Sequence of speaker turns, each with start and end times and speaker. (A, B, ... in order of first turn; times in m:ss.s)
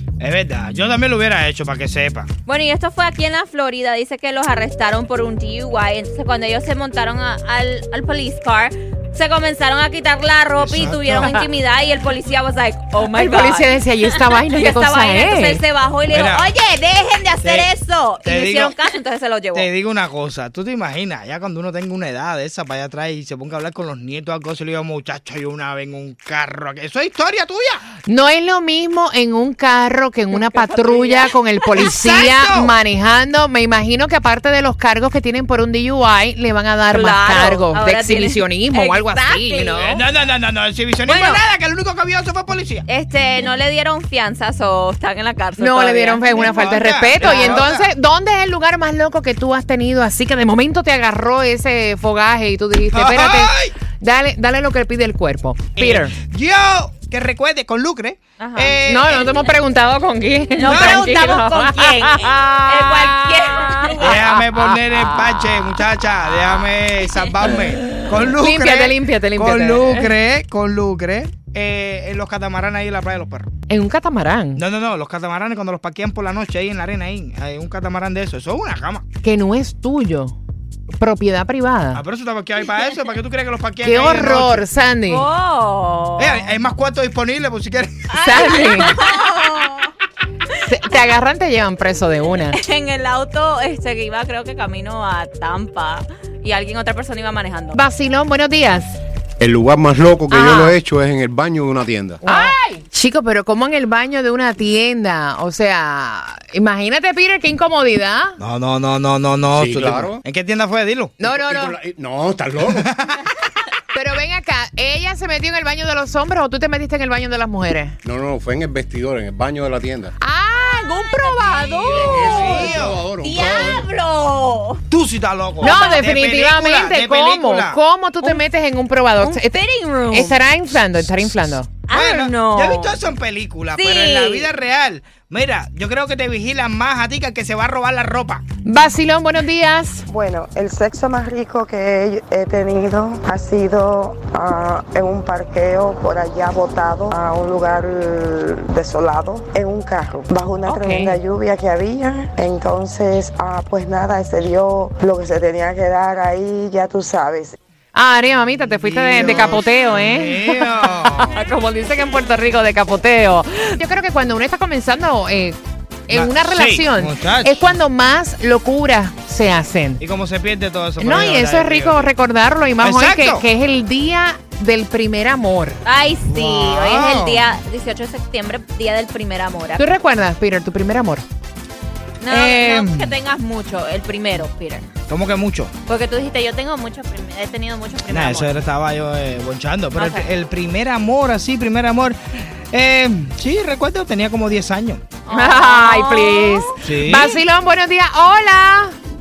0:00.2-0:02.3 A
0:02.5-0:19.7 B
0:10.6-0:11.5 A
0:13.1-0:15.6 C
0:16.1-0:16.5 A
0:17.4-0:17.7 A
0:18.2-0:18.8 A
0:19.5-0:27.8 A
0:28.1-0:40.0 C
0:30.3-0:32.3 B
0:31.8-0:32.8 A
0:36.9-0:40.0 B
0:39.8-0:42.9 A
0:41.1-0:41.4 B
0:42.9-0:46.7 B
0:45.6-0:56.2 C
0:46.2-0:47.9 A
0:47.2-0:47.7 B
0:52.9-0:53.8 A
0:55.8-0:59.4 A
0:58.4-0:58.8 B
0:58.8-1:05.5 C
1:00.6-1:04.2 B
1:00.7-1:01.0 A
1:04.0-1:13.5 A
1:08.4-1:10.1 C
1:13.7-1:14.6 C
1:14.6-1:19.0 A
1:19.2-1:20.4 C
1:21.0-1:22.0 C
1:21.9-1:24.6 A
1:23.8-1:25.3 C
1:25.1-1:26.5 B
1:26.2-1:28.0 A
1:28.1-1:29.9 B
1:28.2-1:29.0 C
1:30.6-1:32.6 C
1:32.5-1:37.8 B
1:37.7-1:38.9 C
1:39.4-1:42.2 D
1:40.3-1:40.8 C
1:42.2-1:42.5 B
1:42.2-1:48.4 C
1:48.4-1:51.2 A
1:49.5-1:50.2 D
1:51.2-1:51.8 C
1:51.2-1:52.9 D
1:52.7-1:53.2 A
1:53.9-1:58.0 C
1:58.0-2:00.1 D
2:00.2-2:02.5 C
2:00.5-2:04.8 B
2:01.9-2:03.9 D
2:02.3-2:03.0 A
2:04.9-2:07.8 A
2:05.6-2:09.6 C
2:05.6-2:06.2 B
2:09.2-2:10.3 B
2:10.1-2:11.7 C
2:11.9-2:13.0 B
2:11.9-2:18.4 A
2:13.8-2:14.5 B
2:18.6-2:20.0 C
2:20.1-2:37.6 E
2:30.7-2:31.2 C
2:37.9-2:45.6 C
2:38.6-2:41.3 A
2:46.1-2:50.0 C
2:46.1-2:47.7 A
2:50.0-2:52.1 A
2:51.0-2:55.8 C
2:52.8-2:53.4 A
2:55.8-2:59.9 B
2:56.3-2:57.4 A
2:59.8-3:01.2 C
3:02.2-3:04.9 B
3:02.3-3:03.1 C
3:05.1-3:05.7 A
3:05.9-3:08.5 B
3:08.1-3:15.0 A
3:10.0-3:10.3 B
3:15.2-3:16.8 B
3:15.3-3:19.0 C
3:16.8-3:17.4 A